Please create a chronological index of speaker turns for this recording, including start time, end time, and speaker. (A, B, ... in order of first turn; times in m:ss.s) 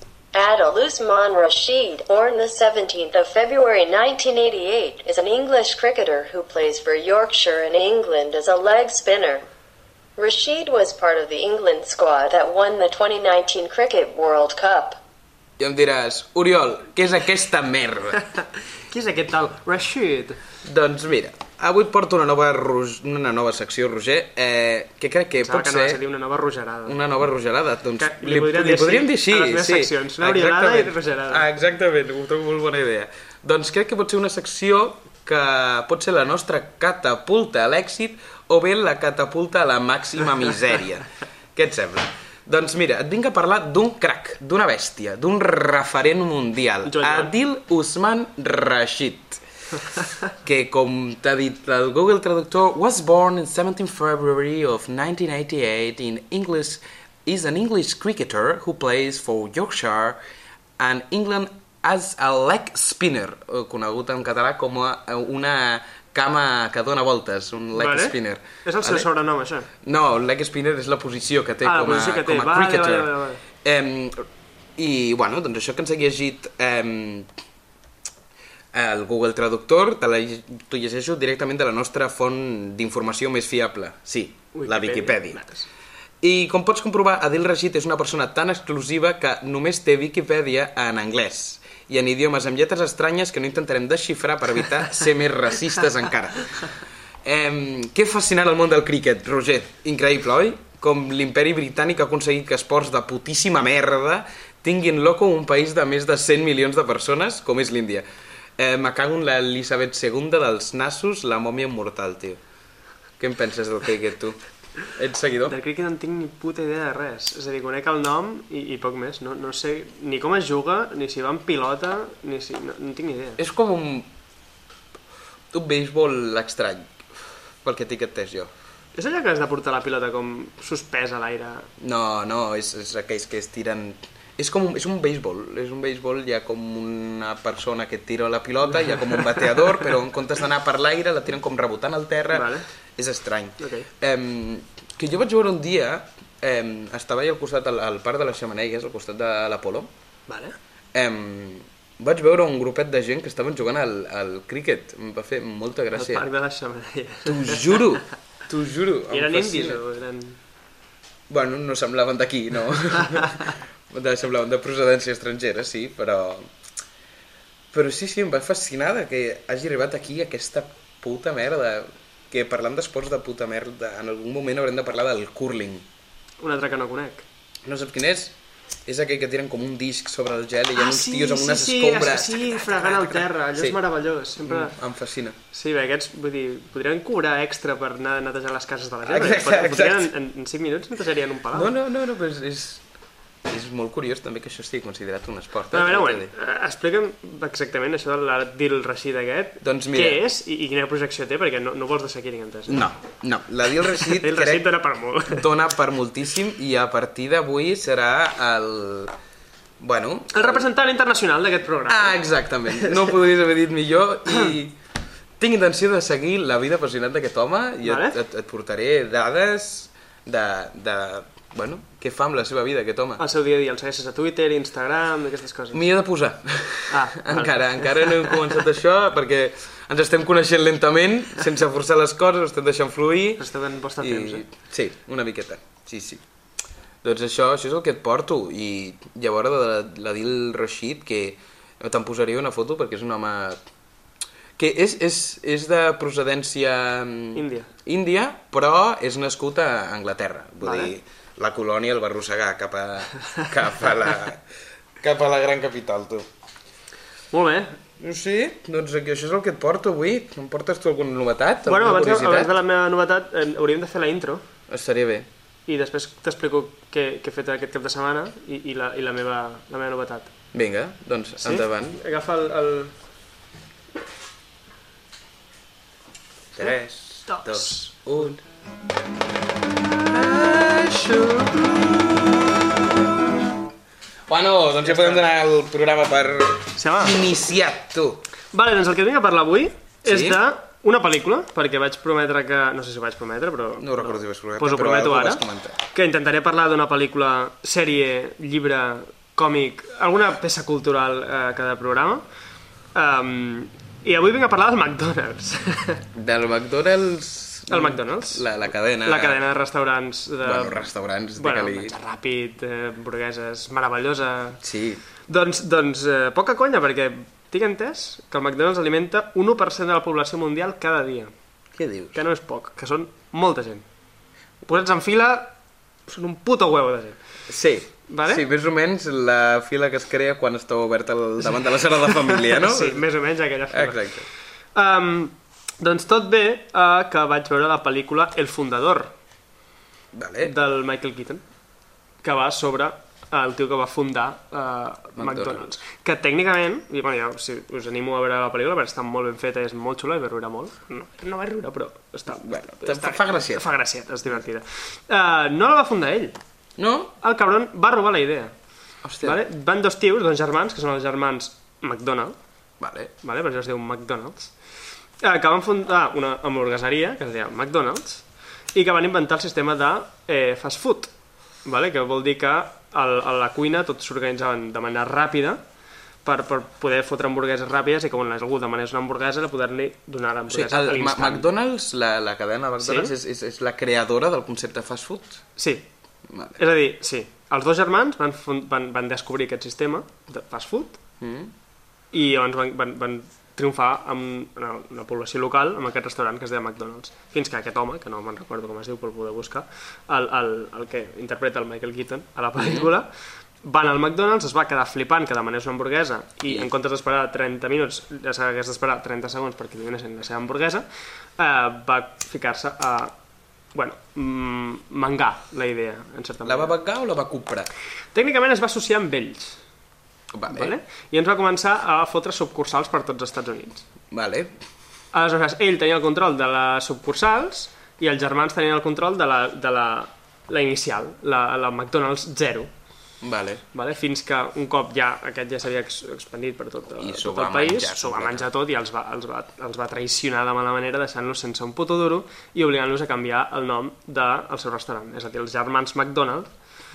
0:00.3-0:09.4 A
0:10.2-0:15.0 A
0:15.6-0:18.3 B
0:18.9-0:20.4 C
0:20.6-0:26.0 B
0:25.4-0:27.0 C
0:26.8-0:49.4 B
0:28.0-0:31.4 C
0:46.8-0:47.3 C
0:50.4-1:00.2 B
1:00.8-1:09.1 B
1:07.7-1:09.7 C
1:09.8-1:13.1 B
1:11.6-1:13.4 C
1:13.6-1:17.3 B
1:18.7-1:25.4 B
1:24.5-1:25.6 C
1:26.2-1:48.0 B
1:48.6-1:52.4 B
1:53.2-1:55.6 B
1:55.5-2:03.4 C
2:03.4-2:04.1 B
2:05.5-2:07.0 B
2:07.6-2:08.5 B
2:08.9-2:11.7 C
2:11.8-2:29.9 B
2:18.9-2:19.4 C
2:22.3-2:22.6 C
2:23.6-2:23.9 C
2:30.3-2:30.6 C
2:30.9-2:36.3 B
2:36.0-2:37.8 C
2:37.2-2:39.8 B
2:39.1-2:40.4 C
2:41.3-2:46.5 B
2:47.7-2:55.8 B
2:56.4-2:57.2 C
2:57.7-2:58.3 B
2:58.9-3:03.8 B
3:00.8-3:04.8 C
3:04.4-3:05.4 B
3:05.5-3:11.7 C
3:09.0-3:10.1 B
3:11.5-3:12.8 B
3:13.5-3:16.3 B
3:15.7-3:22.9 C
3:19.6-3:20.2 B
3:22.7-3:24.6 B
3:23.9-3:25.5 C
3:25.3-3:29.1 B
3:29.8-3:30.7 B
3:30.3-3:33.2 C
3:31.9-3:34.8 B
3:35.4-3:43.2 B
3:37.8-3:38.2 C
3:43.2-3:45.8 C
3:45.7-3:53.4 B
3:46.9-3:48.4 C
3:53.4-3:54.4 C
3:54.0-3:56.2 B
3:57.0-4:03.6 B
4:04.6-4:14.4 B
4:07.4-4:07.7 C
4:10.6-4:10.9 C
4:15.0-4:16.2 B
4:17.3-4:17.8 C
4:18.0-4:22.5 B
4:21.6-4:24.4 C
4:24.7-4:25.3 B
4:25.7-4:30.3 C
4:30.5-4:32.0 B
4:31.4-4:32.9 C
4:36.6-4:38.4 B
4:37.3-4:37.9 C
4:40.1-4:42.5 B
4:44.3-4:48.2 B
4:44.9-4:45.2 C
4:46.8-4:47.2 C
4:48.5-5:02.2 C
4:50.0-4:50.4 B
4:53.8-4:55.8 B
5:02.9-5:06.0 C
5:06.1-5:09.4 B
5:07.7-5:08.4 C
5:09.0-5:14.6 C
5:10.4-5:11.9 B
5:14.6-5:15.0 B
5:15.3-5:21.3 C
5:21.8-5:22.2 B
5:22.1-5:23.8 C
5:24.6-5:25.5 C
5:26.1-5:27.2 C
5:27.5-5:33.0 B
5:28.1-5:28.4 C
5:31.5-5:34.2 C
5:33.7-5:34.3 B
5:34.8-5:39.1 C
5:40.1-5:40.5 B
5:40.4-5:41.4 C
5:42.2-5:56.3 C
5:45.2-5:45.6 B
5:52.3-5:53.7 B
5:56.8-5:57.1 B
5:57.2-5:58.5 C
5:59.0-5:59.4 B
5:59.2-6:02.3 C
6:02.8-6:03.1 B
6:03.2-6:04.5 C
6:05.2-6:08.2 C
6:08.7-6:11.1 C
6:11.6-6:15.6 C
6:16.2-6:21.4 C
6:20.5-6:25.4 B
6:22.8-6:23.1 C
6:25.6-6:25.8 C
6:26.3-6:26.6 B
6:26.6-6:31.0 C
6:31.2-6:31.5 B
6:32.1-6:43.1 C
6:42.6-6:42.9 B
6:43.6-6:50.8 C
6:51.4-6:53.1 C
6:53.7-6:56.7 C
6:56.4-6:57.7 B
6:58.1-6:59.6 C
7:00.3-7:00.8 B
7:00.5-7:03.8 C
7:04.1-7:04.5 B
7:05.1-7:12.7 C
7:13.2-7:13.6 B
7:13.7-7:26.5 C
7:16.9-7:18.5 B